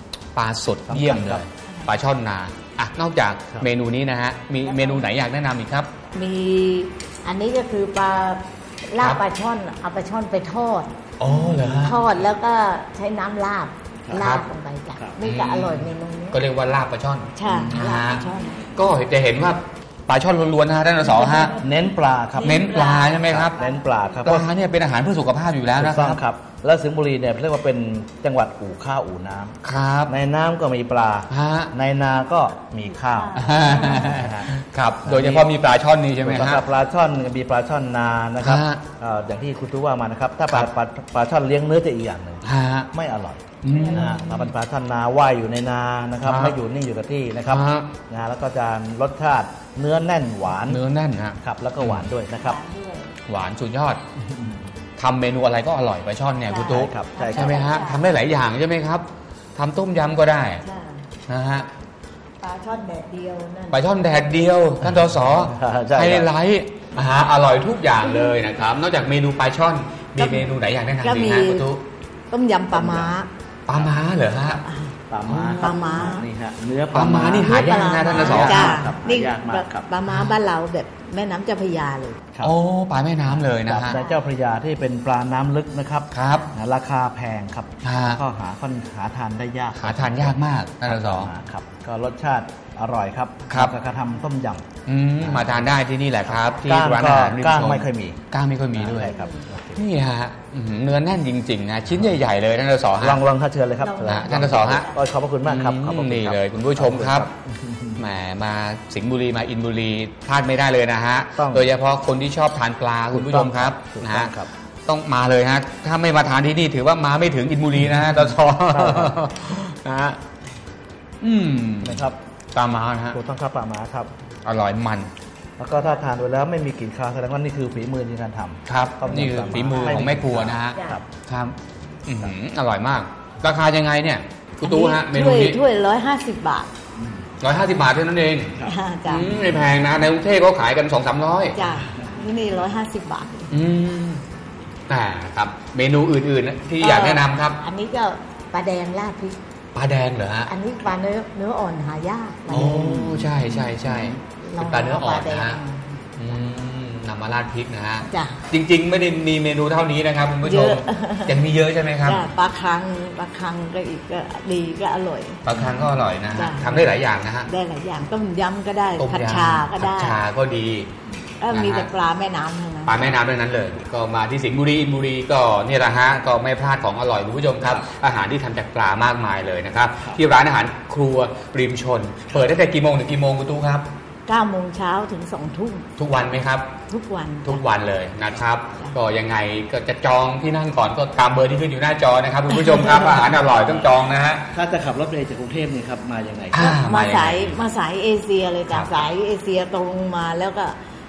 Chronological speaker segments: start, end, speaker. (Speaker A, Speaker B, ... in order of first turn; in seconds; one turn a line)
Speaker A: 0.3-5.9
Speaker B: 0.9-1.5
Speaker C: 1.7-1.9
Speaker C: 4.7-5.1
Speaker C: 6.1-10.9
Speaker A: 11.2-12.0
Speaker B: 11.2-11.9
Speaker C: 11.8-16.4
Speaker A: 14.2-14.5
Speaker A: 15.2-21.6
Speaker C: 17.4-18.8
Speaker B: 17.5-17.8
Speaker C: 21.0-24.4
Speaker B: 21.6-22.7
Speaker A: 22.4-23.6
Speaker B: 23.2-24.5
Speaker A: 24.2-26.2
Speaker B: 25.8-34.5
Speaker A: 29.6-30.1
Speaker A: 31.3-31.7
Speaker C: 33.0-34.3
Speaker A: 33.4-36.6
Speaker B: 35.0-35.5
Speaker B: 36.2-50.8
Speaker A: 38.4-38.8
Speaker A: 42.4-42.9
Speaker A: 43.6-44.1
Speaker C: 43.7-44.5
Speaker A: 46.2-46.6
Speaker A: 47.5-47.9
Speaker A: 50.7-52.1
Speaker B: 51.4-52.6
Speaker C: 52.4-53.2
Speaker A: 53.3-54.0
Speaker B: 54.3-54.6
Speaker A: 55.0-60.6
Speaker C: 56.5-58.2
Speaker B: 56.6-57.8
Speaker C: 60.6-61.1
Speaker A: 61.3-61.7
Speaker C: 62.4-63.8
Speaker A: 63.7-71.8
Speaker B: 65.2-66.3
Speaker C: 68.0-68.5
Speaker C: 70.2-71.7
Speaker C: 72.3-73.3
Speaker B: 72.7-73.2
Speaker A: 73.7-74.6
Speaker C: 74.5-75.0
Speaker B: 75.1-77.5
Speaker A: 75.3-75.9
Speaker C: 75.5-76.3
Speaker A: 76.9-78.7
Speaker C: 77.4-82.2
Speaker B: 78.1-79.9
Speaker A: 80.1-80.3
Speaker A: 82.4-84.0
Speaker B: 83.3-94.7
Speaker C: 83.9-84.2
Speaker A: 86.1-86.5
Speaker A: 87.8-88.2
Speaker A: 89.8-91.3
Speaker A: 94.9-99.1
Speaker B: 95.2-95.7
Speaker B: 96.2-98.2
Speaker B: 98.8-99.8
Speaker C: 98.9-99.5
Speaker A: 99.8-103.2
Speaker B: 103.0-108.0
Speaker C: 103.8-105.0
Speaker A: 104.1-104.9
Speaker A: 105.5-107.3
Speaker A: 108.0-114.3
Speaker B: 111.4-111.7
Speaker B: 113.1-114.5
Speaker A: 114.9-120.2
Speaker B: 118.7-119.2
Speaker A: 121.2-123.2
Speaker B: 121.8-122.2
Speaker B: 123.1-124.1
Speaker A: 124.5-125.1
Speaker B: 125.6-131.1
Speaker A: 128.7-131.6
Speaker C: 129.1-130.0
Speaker C: 130.8-131.0
Speaker A: 132.1-135.6
Speaker C: 134.6-136.7
Speaker A: 137.4-138.6
Speaker C: 138.6-139.4
Speaker A: 139.1-141.6
Speaker C: 141.5-143.5
Speaker B: 141.9-142.2
Speaker A: 143.5-144.2
Speaker A: 144.9-147.6
Speaker C: 146.8-149.4
Speaker A: 149.8-150.5
Speaker C: 150.5-156.3
Speaker A: 152.5-155.6
Speaker A: 156.2-162.2
Speaker C: 158.1-158.5
Speaker C: 160.4-161.4
Speaker C: 162.0-165.4
Speaker A: 165.4-167.5
Speaker C: 166.3-166.9
Speaker C: 167.5-170.2
Speaker A: 169.0-170.9
Speaker C: 171.4-173.0
Speaker A: 171.5-171.9
Speaker A: 172.9-183.9
Speaker B: 177.6-177.9
Speaker C: 184.3-185.9
Speaker A: 186.0-186.7
Speaker C: 186.9-187.7
Speaker A: 187.4-194.5
Speaker C: 192.5-193.4
Speaker B: 193.4-193.9
Speaker B: 194.5-196.8
Speaker A: 196.5-197.6
Speaker C: 196.6-200.8
Speaker B: 198.7-199.0